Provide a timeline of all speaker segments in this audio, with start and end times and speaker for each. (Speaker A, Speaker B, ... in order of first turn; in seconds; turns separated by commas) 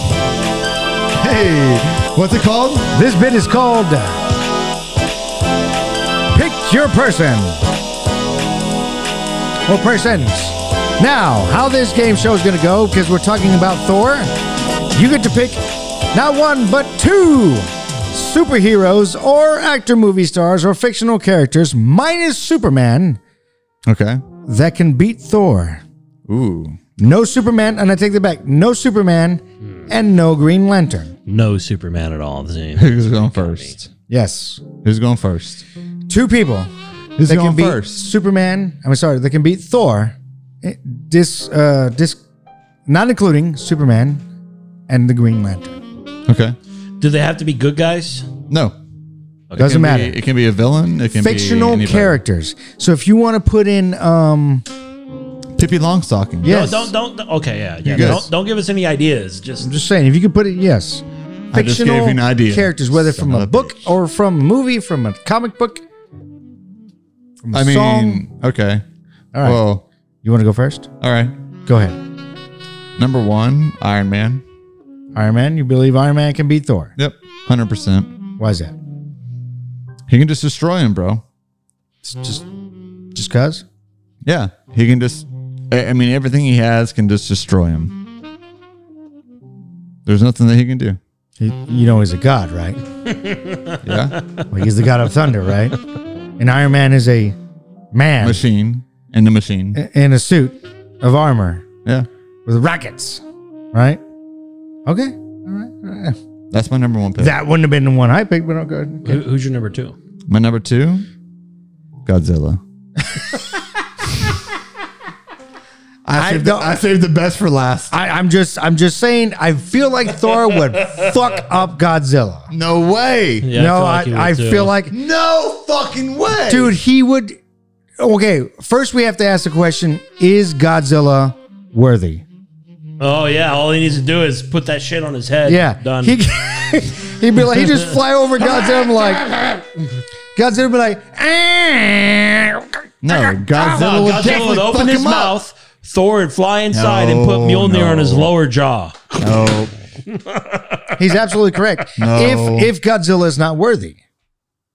Speaker A: 1.2-2.9, Speaker B: 2.9-4.2, Speaker B: 6.3-7.6, Speaker B: 9.7-14.3, Speaker B: 14.9-23.2, Speaker A: 23.9-24.2, Speaker B: 24.4-25.8, Speaker A: 26.3-26.8, Speaker B: 27.0-31.1, Speaker C: 31.3-33.8, Speaker A: 32.8-33.9, Speaker B: 34.1-34.6, Speaker A: 34.8-35.6, Speaker B: 36.1-36.7, Speaker A: 37.2-38.0, Speaker B: 37.2-42.2, Speaker B: 42.9-44.2, Speaker B: 44.9-45.8, Speaker A: 46.3-46.6, Speaker C: 47.0-48.3, Speaker A: 48.5-48.8, Speaker A: 49.5-52.2, Speaker B: 49.6-50.2, Speaker B: 51.1-54.6, Speaker A: 55.6-56.6, Speaker B: 56.4-56.9, Speaker C: 56.4-59.7, Speaker A: 57.9-58.2, Speaker B: 57.9-58.3, Speaker B: 59.6-65.8, Speaker A: 61.5-63.8, Speaker B: 67.4-68.2, Speaker A: 67.5-68.8, Speaker B: 69.3-69.6, Speaker A: 69.4-69.8, Speaker B: 70.2-70.9, Speaker A: 71.0-71.3, Speaker B: 71.7-72.0, Speaker A: 73.0-74.4, Speaker B: 75.2-76.9, Speaker A: 77.0-78.1, Speaker B: 78.4-78.8, Speaker A: 80.1-81.2, Speaker B: 82.0-82.5, Speaker B: 83.1-83.7, Speaker A: 84.2-87.9, Speaker A: 90.1-91.0, Speaker B: 91.4-92.8, Speaker C: 93.1-93.8, Speaker A: 93.8-94.2, Speaker B: 94.5-95.8, Speaker B: 96.4-97.4, Speaker B: 97.9-98.4, Speaker A: 98.2-99.8, Speaker B: 99.7-101.7, Speaker B: 102.5-104.0, Speaker B: 104.9-106.2, Speaker A: 106.5-107.3, Speaker B: 107.2-109.2, Speaker C: 109.0-110.0, Speaker A: 110.3-111.1, Speaker A: 112.1-112.6, Speaker A: 116.0-117.9, Speaker B: 116.2-116.8, Speaker B: 117.9-122.5, Speaker A: 122.5-123.5, Speaker C: 123.4-124.8, Speaker B: 123.5-125.0, Speaker A: 124.9-126.8, Speaker B: 126.5-127.4, Speaker B: 128.0-132.2, Speaker C: 133.0-136.2, Speaker B: 135.5-139.4, Speaker B: 140.4-144.2, Speaker A: 143.0-145.3, Speaker C: 143.7-149.4, Speaker A: 146.7-148.3, Speaker A: 149.2-149.7, Speaker C: 150.1-151.0, Speaker B: 151.0-154.0, Speaker A: 152.0-152.7